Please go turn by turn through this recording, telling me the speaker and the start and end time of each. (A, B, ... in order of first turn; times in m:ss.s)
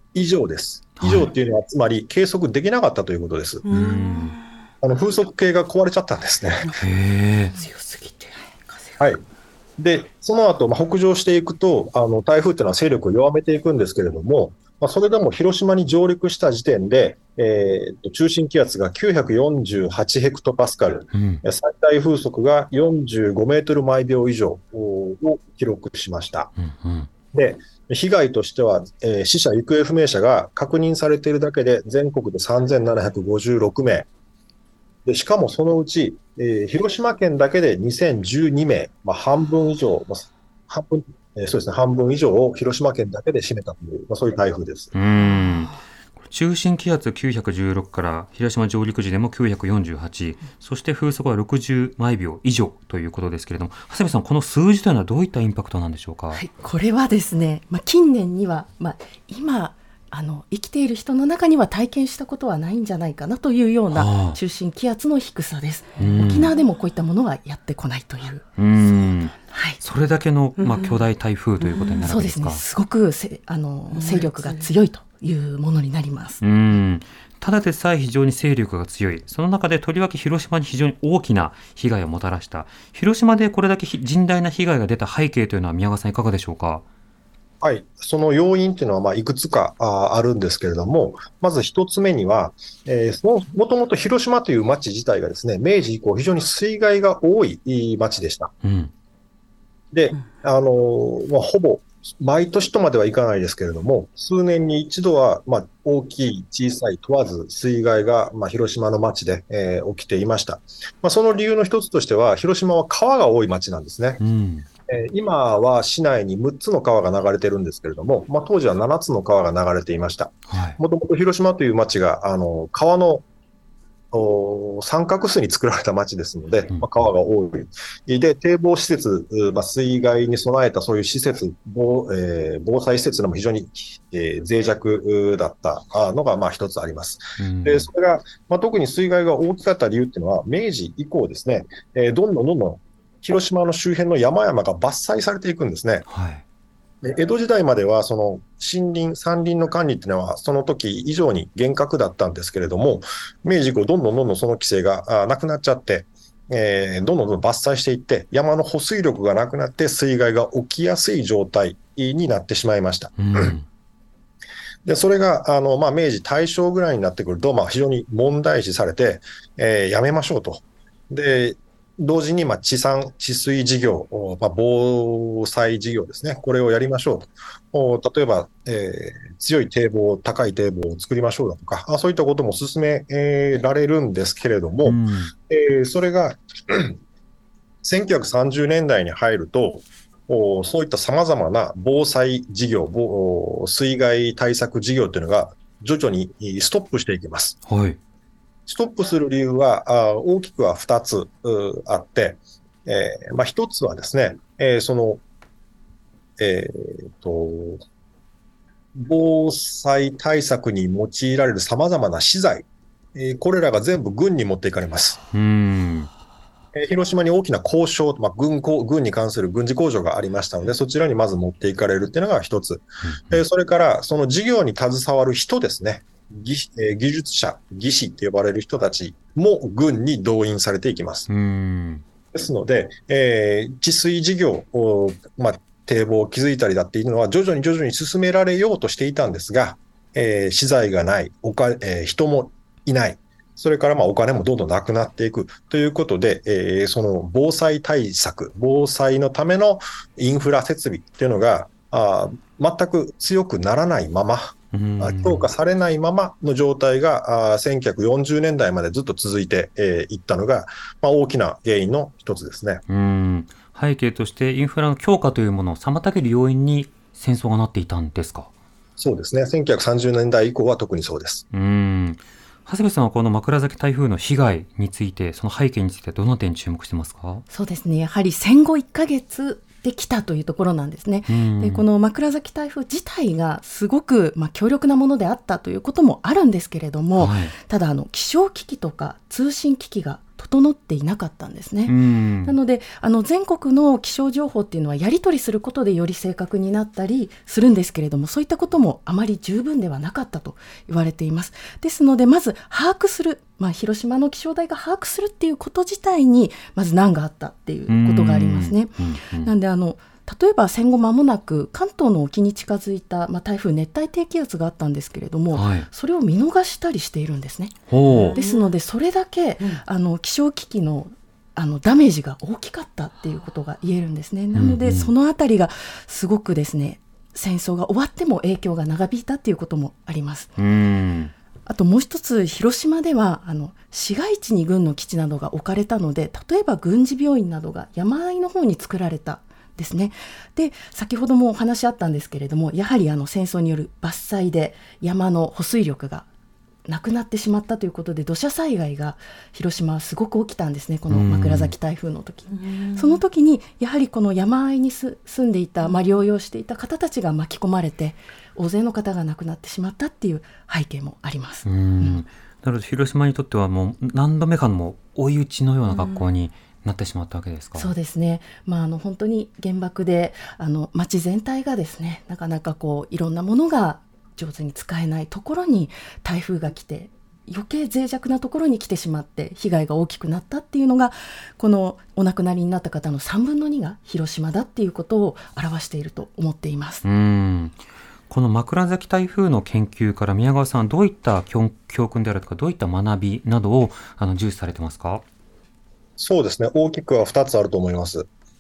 0:00.1-0:03.6 A
0:01.0-0:01.3 B
0:03.6-0:04.6 C
0:03.7-0:04.4 B
0:04.8-0:06.8 A
0:06.7-0:07.6 B
0:07.5-0:09.0 C
0:09.8-0:26.5 A
0:21.1-0:21.4 B
0:26.6-0:27.1 B
0:27.3-0:34.1 A
0:35.1-0:44.9 A
0:44.9-0:56.4 B
0:56.3-1:08.4 D
1:03.9-1:04.4 B
1:06.0-1:06.5 B
1:06.0-1:06.5 C
1:08.6-1:12.6 B
1:08.8-1:09.4 C
1:09.5-1:09.8 D
1:10.6-1:11.0 C
1:11.6-1:12.1 C
1:12.0-1:16.4 D
1:13.9-1:14.7 C
1:16.4-1:26.8 B
1:27.6-1:38.5 A
1:38.6-1:38.9 B
1:39.9-1:54.2 A
1:54.2-1:54.7 B
1:54.9-2:03.2 A
2:00.5-2:00.8 B
2:04.1-2:26.1 A
2:17.4-2:17.9 B
2:26.1-2:26.4 B
2:27.0-2:43.6 A
2:43.2-2:43.7 B
2:44.8-3:07.0 A
3:04.8-3:05.3 B
3:07.8-3:17.6 A
3:17.7-3:18.0 B
3:18.7-3:25.2 A
3:26.4-3:27.8 A
3:29.0-3:35.2 A
3:35.3-3:36.1 B
3:36.8-3:51.3 A
3:43.0-3:43.4 B
3:51.3-3:52.0 B
3:52.3-4:22.8 A
4:14.7-4:15.5 B
4:22.9-4:28.5 B
4:29.0-4:31.4 A
4:31.5-4:37.4 B
4:37.5-5:30.5 D
4:41.3-4:41.8 B
4:47.2-4:47.6 B
4:51.9-4:52.6 B
5:07.9-5:09.5 B
5:15.5-5:15.9 B
5:17.9-5:18.4 B
5:18.0-5:18.7 C
5:24.5-5:25.1 B
5:30.6-5:31.3 B
5:31.7-5:46.3 D
5:46.9-6:02.3 D
5:51.1-5:51.7 B
5:52.5-5:53.2 C
6:01.6-6:07.9 B
6:05.9-6:06.2 C
6:07.8-6:27.0 D
6:27.0-6:35.2 B
6:36.2-6:38.3 A